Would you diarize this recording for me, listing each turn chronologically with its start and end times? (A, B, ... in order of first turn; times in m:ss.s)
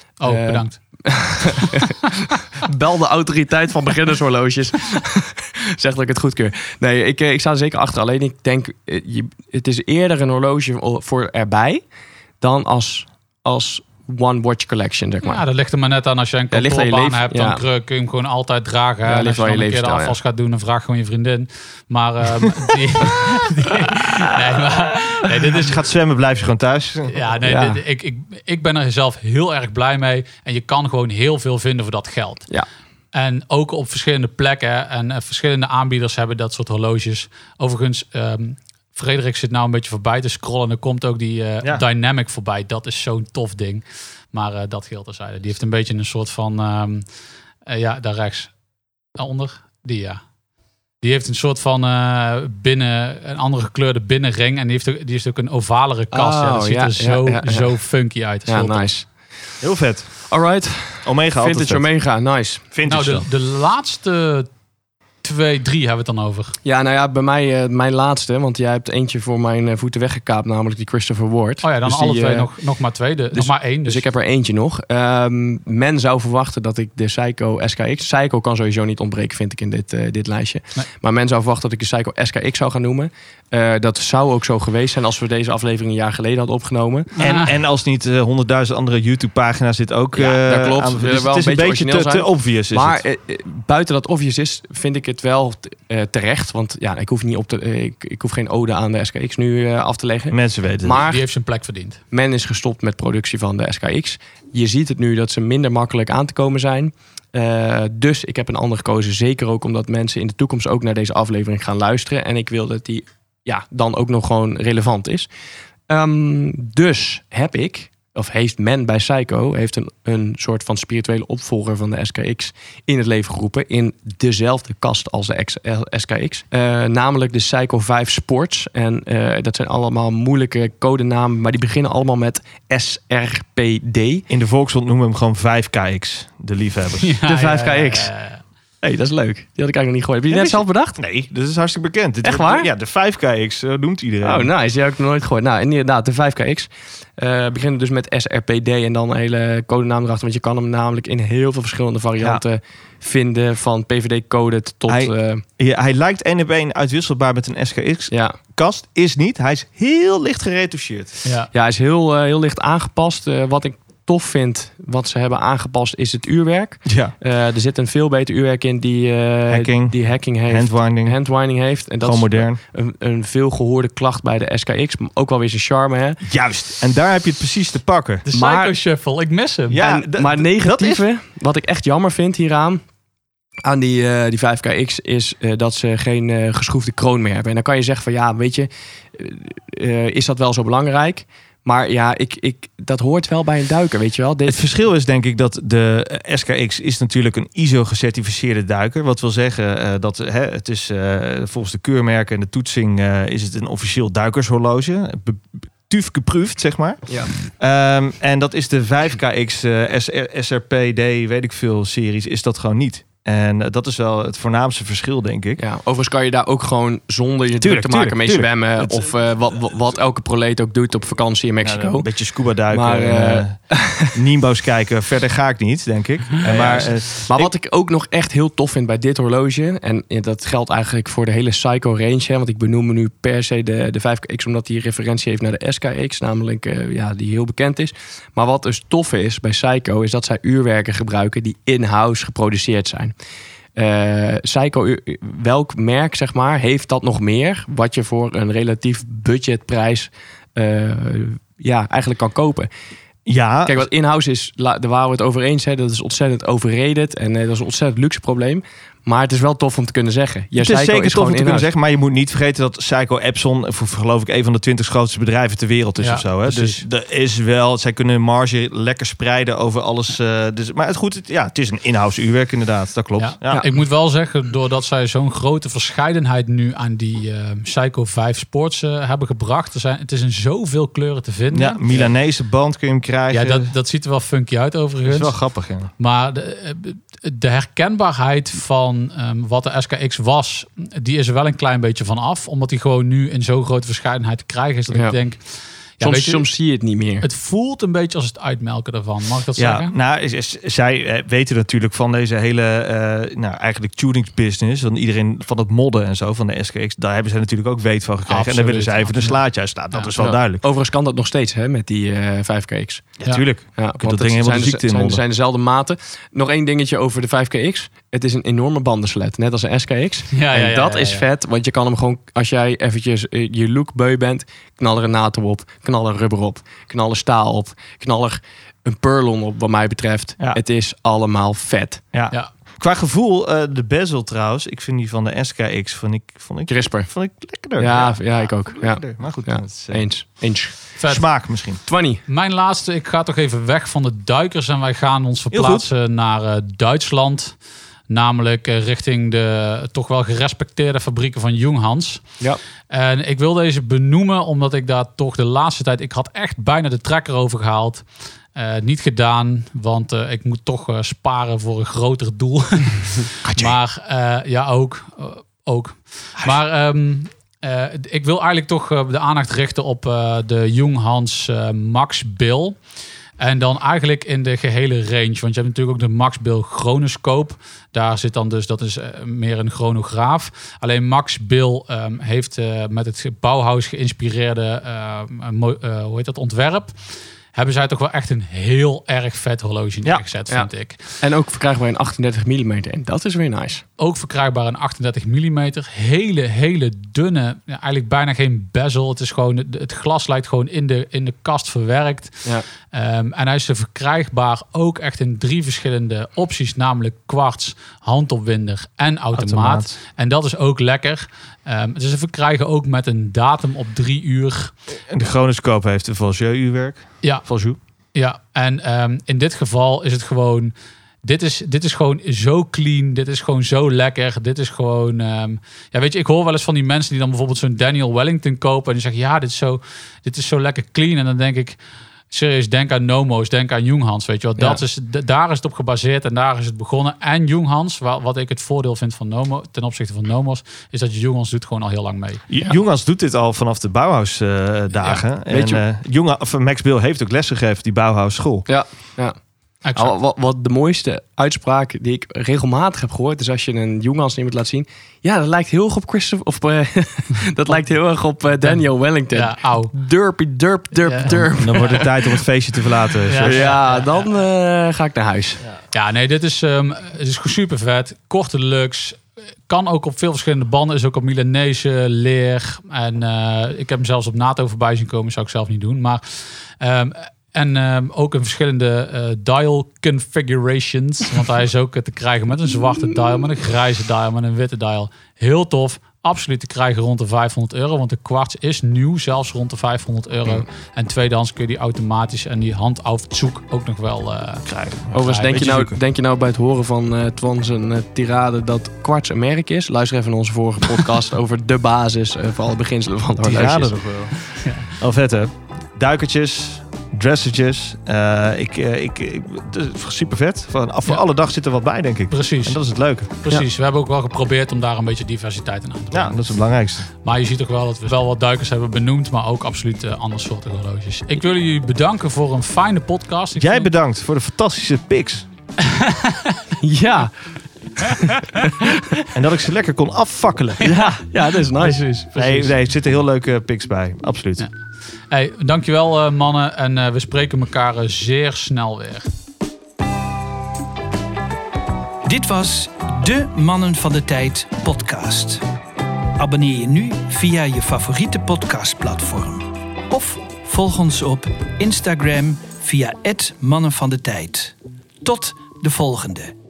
0:00.2-0:00.8 A
0:00.2-0:11.8 B
0:01.5-0:02.1 A
0:12.4-0:15.4 B
0:15.2-0:25.8 A
0:16.5-0:17.6 B
0:19.0-0:20.2 B
0:25.5-0:27.2 C
0:27.1-0:32.4 A
0:27.4-0:27.8 B
0:33.1-0:47.0 A
0:47.6-0:48.5 A
0:49.2-0:50.2 A
0:51.0-0:58.8 A
0:56.1-0:57.7 B
0:58.5-0:59.1 B
0:59.6-1:00.1 C
1:00.3-1:02.6 B
1:01.0-1:01.8 C
1:02.7-1:03.3 C
1:02.8-1:04.5 A
1:05.2-1:06.6 A
1:06.6-1:12.5 B
1:11.6-1:14.0 A
1:13.3-1:27.1 B
1:27.2-1:33.0 C
1:27.2-1:27.5 A
1:30.1-1:41.2 B
1:40.3-1:41.1 C
1:41.0-1:42.0 A
1:42.1-1:55.3 B
1:55.9-2:14.2 B
2:14.3-2:17.2 C
2:17.0-2:18.4 A
2:17.2-2:18.1 B
2:18.8-2:21.0 B
2:20.3-2:24.5 C
2:22.2-2:22.7 B
2:24.2-2:35.4 B
2:34.9-2:41.2 C
2:38.1-2:38.4 B
2:41.2-2:41.5 A
2:41.5-2:56.2 B
2:46.8-2:47.1 C
2:49.5-2:49.9 C
2:50.5-2:51.2 C
2:52.0-2:52.6 C
2:56.2-2:58.2 C
2:58.3-2:59.8 A
2:58.3-2:58.7 B
2:59.7-3:01.0 C
2:59.8-3:02.8 B
3:03.6-3:14.6 B
3:14.4-3:35.6 C
3:27.1-3:27.3 B
3:35.6-3:42.1 B
3:37.6-3:39.1 C
3:41.6-3:43.6 C
3:42.7-3:44.1 B
3:44.1-3:47.5 C
3:46.4-4:03.1 B
4:03.8-4:12.7 B
4:13.2-4:13.8 C
4:13.6-4:21.7 B
4:20.5-4:33.6 C
4:26.0-4:26.8 A
4:33.2-4:42.1 A
4:41.5-4:43.7 C
4:43.3-4:45.4 A
4:45.0-4:45.9 C
4:46.0-4:55.4 A
4:54.9-4:55.2 B
4:56.0-4:56.4 A
4:56.0-4:57.2 B
4:57.2-4:59.9 A
4:59.6-5:10.6 C
5:08.3-5:09.4 A
5:09.9-5:10.3 A
5:10.6-5:13.2 B
5:13.2-5:15.2 C
5:13.8-5:32.0 B
5:20.3-5:21.2 A
5:32.1-5:40.0 C
5:36.7-5:37.1 B
5:37.8-5:40.8 B
5:41.0-5:41.2 A
5:41.1-5:41.8 C
5:41.9-5:42.2 B
5:42.3-5:47.6 A
5:45.5-5:45.9 C
5:48.1-5:52.2 A
5:52.9-6:12.8 A
6:13.4-6:26.9 A
6:27.5-6:31.0 A
6:31.2-6:33.8 B
6:34.0-6:54.7 A
6:49.3-6:49.9 C
6:55.1-6:57.8 C
6:58.1-7:11.8 A
7:12.3-7:22.4 A
7:22.5-7:28.6 C
7:25.0-7:25.2 A
7:25.5-7:25.8 B
7:28.7-7:29.4 B
7:29.8-7:30.1 A
7:30.0-7:42.4 B
7:39.3-7:39.9 A
7:41.0-7:42.0 A
7:41.2-7:43.7 C
7:43.2-7:44.2 A
7:43.4-7:45.6 B
7:45.9-8:15.7 A
8:14.6-8:16.0 C
8:15.1-8:23.9 B
8:23.4-8:33.3 C
8:24.6-8:24.9 A
8:32.3-8:36.4 A
8:36.1-8:37.1 C
8:37.2-8:43.9 A
8:43.6-8:45.5 C
8:45.8-8:46.7 A
8:46.8-8:47.3 B
8:48.0-8:49.2 B
8:48.0-8:48.4 A
8:49.3-8:50.9 C
8:50.8-8:52.7 B
8:52.3-8:54.6 C
8:55.3-8:59.3 A
9:02.2-9:05.6 D
9:06.4-9:16.5 D